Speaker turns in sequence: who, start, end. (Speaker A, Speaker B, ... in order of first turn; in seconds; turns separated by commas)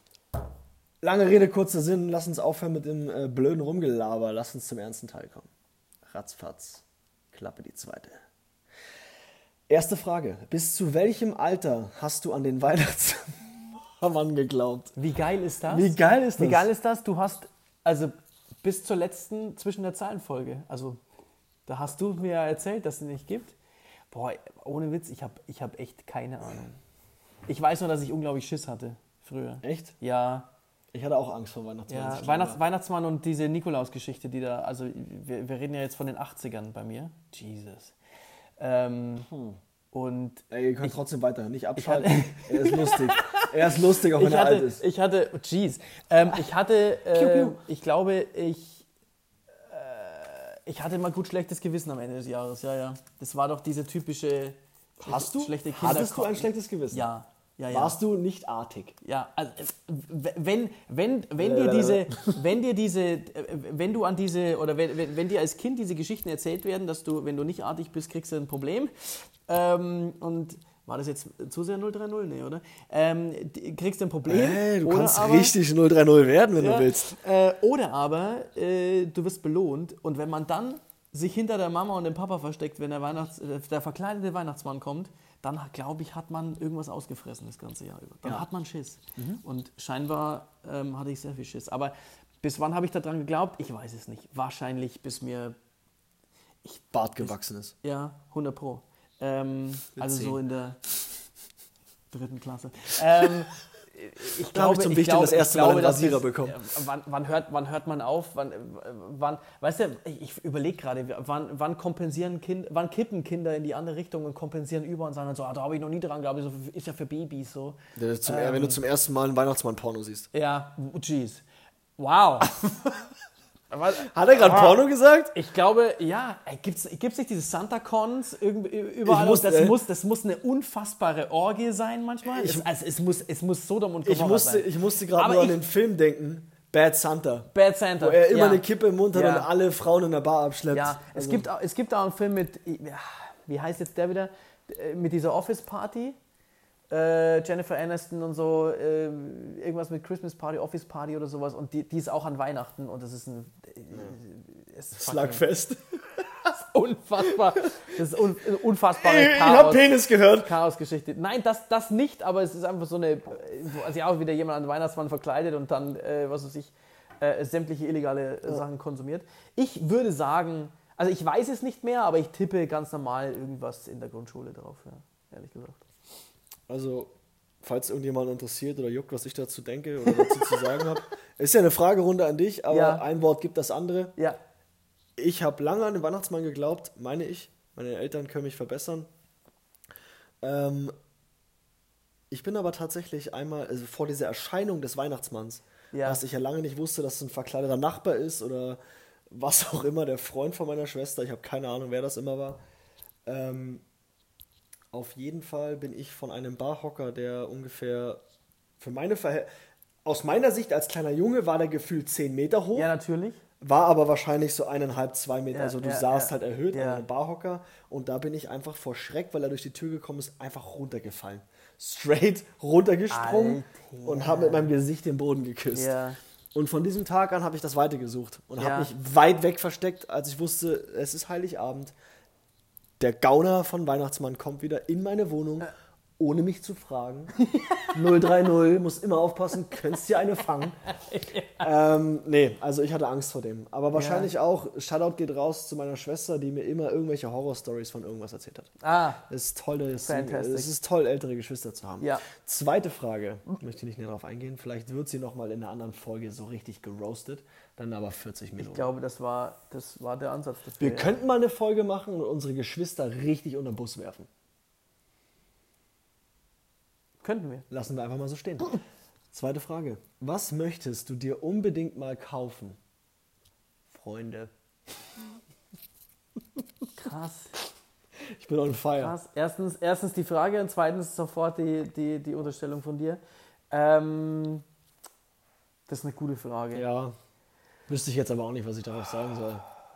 Speaker A: 1.0-5.5, Speaker A: 6.1-8.2, Speaker A: 9.7-15.0, Speaker B: 14.9-21.0, Speaker A: 15.7-16.7, Speaker B: 21.7-23.5, Speaker B: 24.1-26.8, Speaker B: 27.4-30.5, Speaker A: 29.6-29.9, Speaker A: 30.9-32.6, Speaker B: 31.9-37.9, Speaker B: 38.6-39.3, Speaker A: 39.3-39.6, Speaker B: 39.9-41.0, Speaker A: 40.5-44.8, Speaker B: 41.8-48.8, Speaker A: 47.1-47.6, Speaker B: 49.5-58.0, Speaker A: 55.0-57.1, Speaker A: 57.7-59.0, Speaker B: 59.0-75.5, Speaker A: 61.4-62.4, Speaker A: 74.3-77.2, Speaker B: 76.6-95.5, Speaker A: 89.2-89.4, Speaker B: 96.6-100.8, Speaker A: 96.9-97.7, Speaker A: 100.0-100.4, Speaker B: 102.1-118.8, Speaker A: 104.5-106.6, Speaker A: 118.0-120.3, Speaker B: 120.3-121.4, Speaker B: 122.0-122.5, Speaker B: 123.7-124.8, Speaker A: 123.9-125.3, Speaker B: 125.3-135.6, Speaker A: 129.0-129.8, Speaker A: 132.3-132.7, Speaker A: 134.0-141.5, Speaker B: 137.5-139.5, Speaker B: 140.7-146.2, Speaker B: 146.9-155.4, Speaker A: 153.9-154.2, Speaker A: 154.9-156.4, Speaker B: 156.5-175.8, Speaker A: 157.6-157.9, Speaker A: 158.9-160.5, Speaker A: 176.7-177.1, Speaker A: 177.6-184.1, Speaker B: 180.1-180.8, Speaker B: 182.7-183.0, Speaker A: 185.2-189.1, Speaker A: 190.4-190.9, Speaker A: 192.3-198.8, Speaker B: 195.9-196.2, Speaker A: 199.3-202.6, Speaker A: 203.2-203.8, Speaker A: 204.9-208.2, Speaker A: 208.8-209.5, Speaker A: 210.0-212.9, Speaker B: 212.7-213.4, Speaker A: 213.6-225.9, Speaker B: 215.5-217.0, Speaker B: 223.1-224.7, Speaker B: 225.7-226.2, Speaker A: 226.5-231.9, Speaker B: 228.6-228.9, Speaker A: 233.0-240.9, Speaker B: 237.4-237.9, Speaker B: 240.9-241.7, Speaker A: 241.6-248.7, Speaker B: 243.9-244.3, Speaker B: 248.8-249.2, Speaker A: 249.3-258.9, Speaker B: 250.0-250.7, Speaker B: 258.6-261.1, Speaker A: 260.8-264.3, Speaker B: 267.2-267.7, Speaker A: 267.7-268.8, Speaker A: 269.3-272.8, Speaker A: 273.9-274.5, Speaker B: 277.0-277.5, Speaker A: 278.4-279.1, Speaker B: 278.9-284.6, Speaker B: 285.9-286.9, Speaker A: 286.7-287.1, Speaker A: 287.9-289.6